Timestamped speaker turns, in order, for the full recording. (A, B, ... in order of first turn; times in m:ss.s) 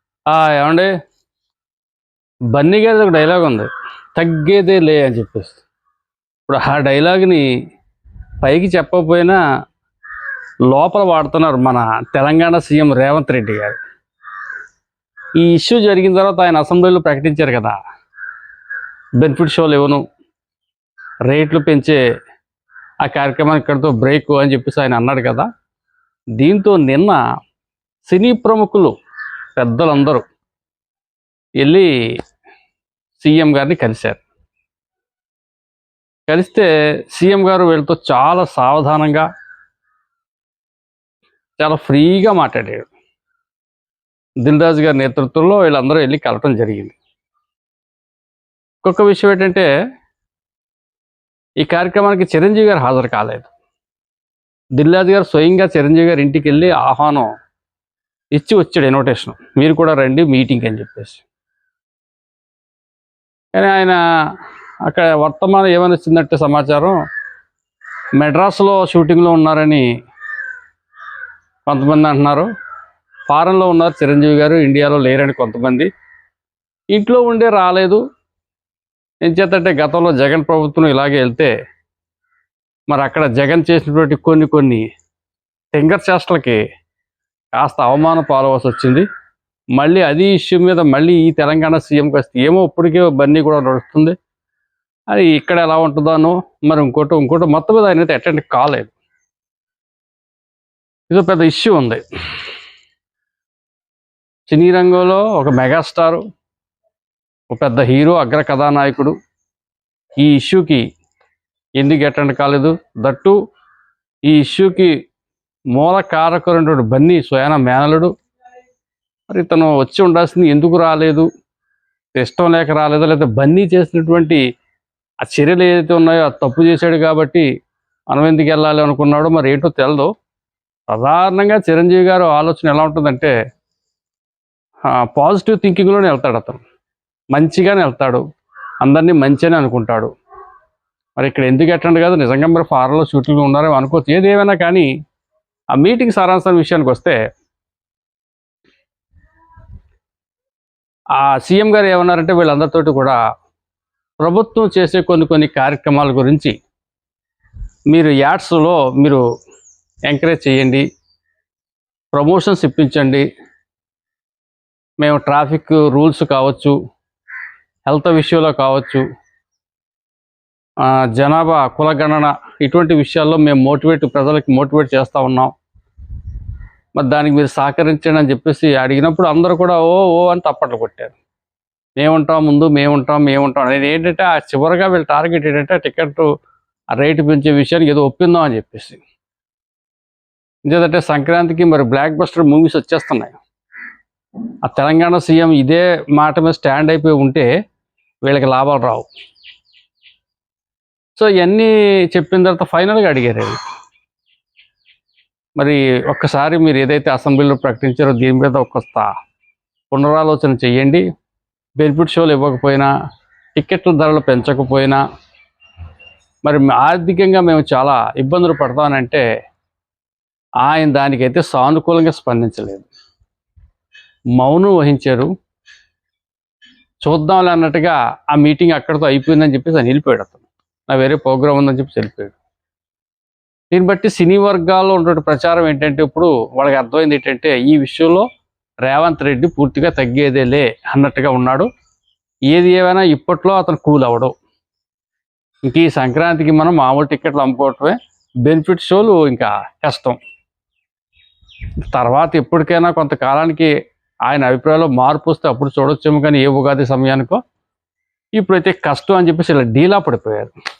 0:00.3-0:00.9 A
0:02.5-0:05.6 A
0:06.5-0:07.4 A
0:08.4-0:09.4 A
0:10.7-0:13.8 A
0:15.4-0:17.8 A
0:19.2-0:20.0 A
0:21.3-0:22.0 A
0:23.0-0:25.5 A
0:26.4-0:27.2 A
0:28.0-0:28.9 A
0:29.6-0:30.2 A
0:31.6-0:31.9 A
0:33.2-0:34.2 A
0:36.3-0:39.3 A
0:41.6-0:42.9 A
0:44.4-0:47.0 A
0:48.8-0:49.7 A
0:51.6-0:53.5 A
0:54.8-0:57.3 A
0:58.4-1:01.2 A
1:03.5-1:04.0 A
1:04.8-1:07.0 A
1:08.2-1:09.8 A
1:11.7-1:12.5 A
1:13.3-1:15.9 A
1:16.9-1:18.0 A
1:19.2-1:21.5 A
1:22.9-1:24.8 A
1:25.7-1:26.6 A
1:27.6-1:29.1 A
1:29.8-1:34.2 A
1:35.1-1:38.9 A
1:41.1-1:42.0 A
1:44.5-1:46.2 A
1:47.5-1:49.1 A
1:50.2-1:50.8 A
1:51.8-1:53.4 A
1:54.3-1:54.9 A
1:55.8-1:58.1 A
1:59.3-2:01.3 A
2:02.2-2:04.4 A
2:05.2-2:07.4 A
2:08.1-2:10.1 A
2:10.9-2:13.3 A
2:15.0-2:16.6 A
2:17.3-2:18.2 A
2:18.8-2:20.1 A
2:21.2-2:24.9 A
2:25.8-2:27.2 A
2:31.2-2:33.2 A
2:34.2-2:36.5 A
2:37.9-2:39.2 A
2:40.1-2:40.8 A
2:42.1-2:43.2 A
2:45.0-2:46.8 A
2:47.9-2:49.0 A
2:50.8-2:55.5 A
2:57.0-3:01.2 A
3:02.0-3:06.3 A
3:07.0-3:09.0 A
3:10.7-3:13.4 A
3:14.6-3:17.5 A
3:18.2-3:19.1 A
3:21.2-3:23.6 A
3:25.6-3:29.1 A
3:29.9-3:31.0 A
3:31.8-3:32.9 A
3:33.6-3:35.0 A
3:36.4-3:39.2 A
3:40.6-3:42.9 A
3:44.4-3:45.3 A
3:47.0-3:52.4 A
3:53.7-3:58.3 A
3:58.8-4:01.7 A
4:02.5-4:04.3 A
4:05.6-4:10.2 A
4:11.9-4:13.7 A
4:14.3-4:17.4 A
4:18.4-4:20.5 A